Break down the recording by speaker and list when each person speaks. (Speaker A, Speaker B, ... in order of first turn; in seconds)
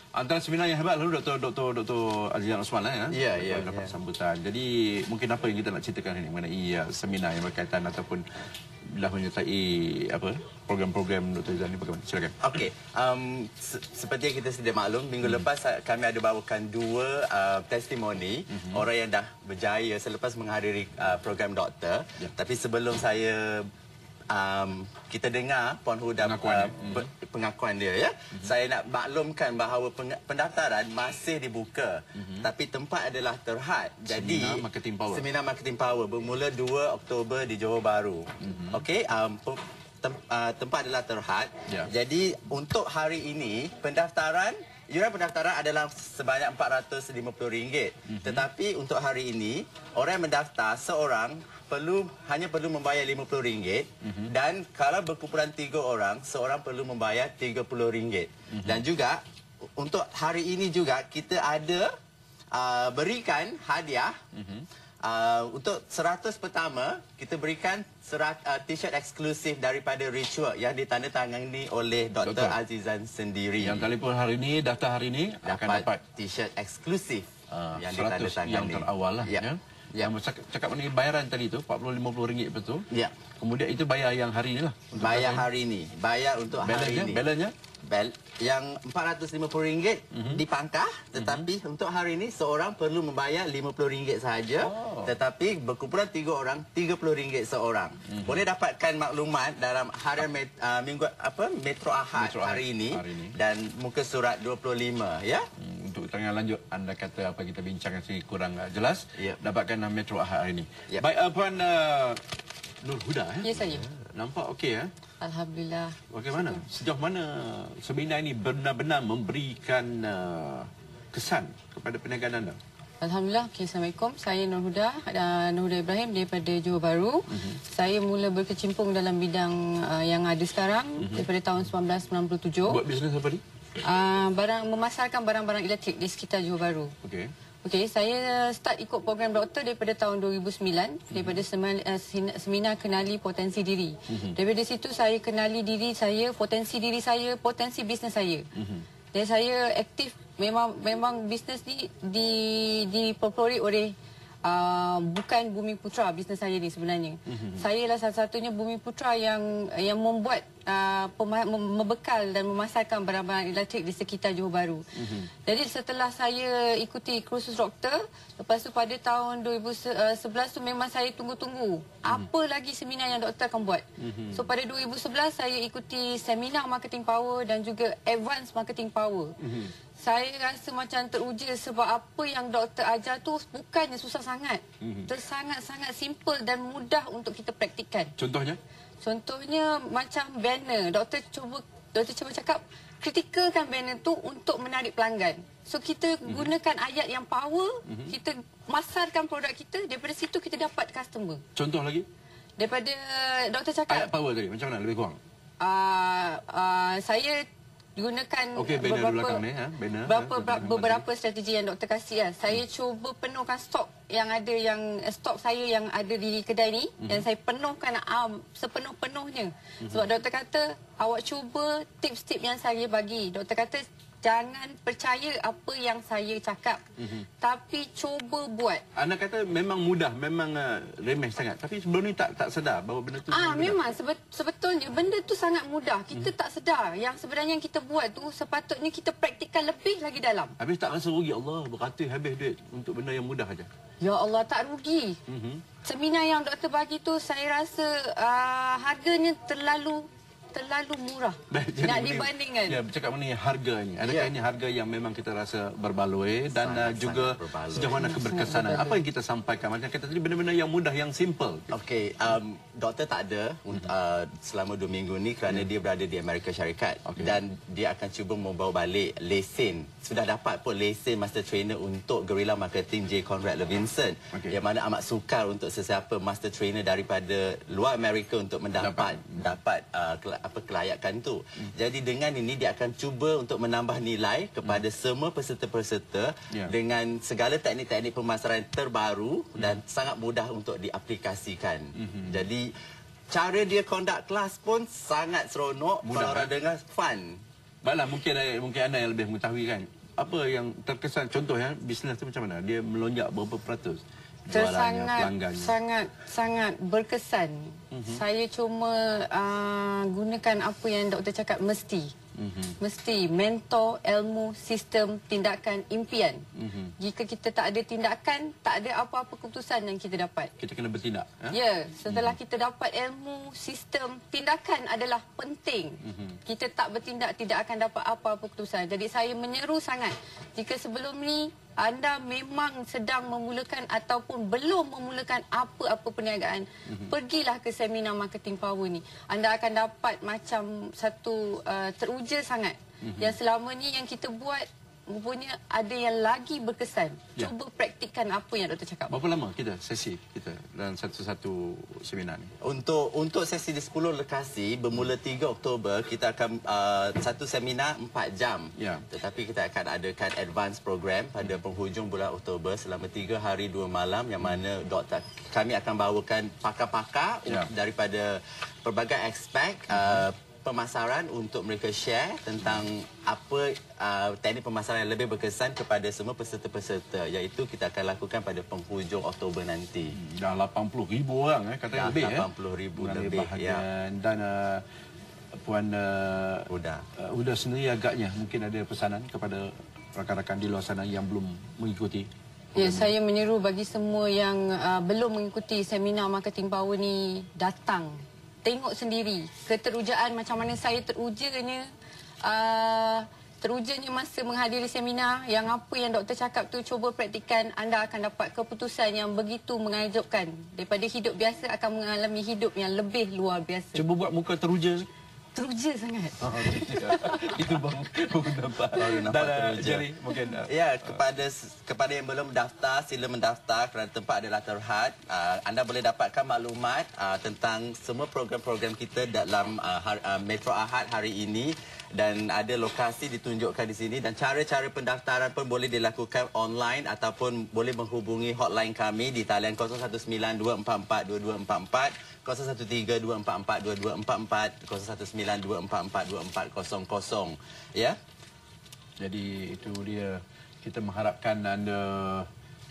Speaker A: 0.1-8.2, 8.9-12.4, 18.5-18.8, 26.2-27.1, 32.1-32.5, 34.1-35.2, 38.4-38.8, 48.1-48.4, 54.0-54.3, 58.5-58.8, 64.3-64.7, 72.2-72.6, 73.6-76.0, 77.5-85.5, 86.5-87.5, 90.1-90.4, 91.2-91.5, 94.6-95.1, 98.1-98.4, 102.2-103.3, 105.6-112.2, 112.8-114.9, 116.1-122.6, 127.3-127.6, 131.0-131.3, 132.7-133.4, 137.0-137.3, 141.1-141.4, 144.1-144.3, 148.6-148.8, 157.3-157.7, 164.9-165.3, 174.0-174.5, 179.4-179.7, 184.8-185.1, 188.2-188.6, 196.2-196.5, 197.8-198.1, 201.5-202.1, 203.9-205.2, 208.5-211.0, 217.0-217.2, 227.0-227.2, 228.9-233.8, 240.6-243.7, 245.3-245.6, 251.5-261.8, 267.0-267.4, 274.3-274.6, 278.8-279.5, 292.0-292.4, 296.0-296.5, 297.8-305.7, 307.9-308.2, 312.3-312.8, 316.6-316.9, 320.6-321.6, 322.1-322.4, 326.0-326.4, 343.0-343.4, 349.1-352.5, 358.8-359.1, 369.9-370.2, 380.1-384.8, 385.5-393.1, 413.9-415.1, 416.4-421.1, 449.2-452.5
Speaker B: 3.1-3.9, 12.4-23.7, 24.3-59.2, 59.8-61.9, 62.5-64.1, 65.0-73.9, 75.4-80.1, 84.9-87.2, 87.9-105.5, 254.0-254.3, 256.5-258.1, 261.7-292.7, 293.3-297.4, 352.6-380.1, 381.9-383.8, 386.7-387.0, 418.9-420.1, 420.6-448.2
Speaker C: 113.4-113.9, 115.2-116.6, 123.0-132.8, 133.8-136.9, 137.6-148.4, 149.1-164.8, 165.4-179.3, 180.0-188.1, 189.0-201.4, 202.6-204.1, 205.6-207.4, 207.9-209.4, 210.0-226.8, 227.4-228.8, 233.2-240.6, 244.0-245.2, 245.8-252.8, 257.9-259.0, 304.5-312.1, 312.8-316.4, 317.0-320.5, 321.5-349.1, 392.7-401.8, 402.4-414.0, 415.5-417.7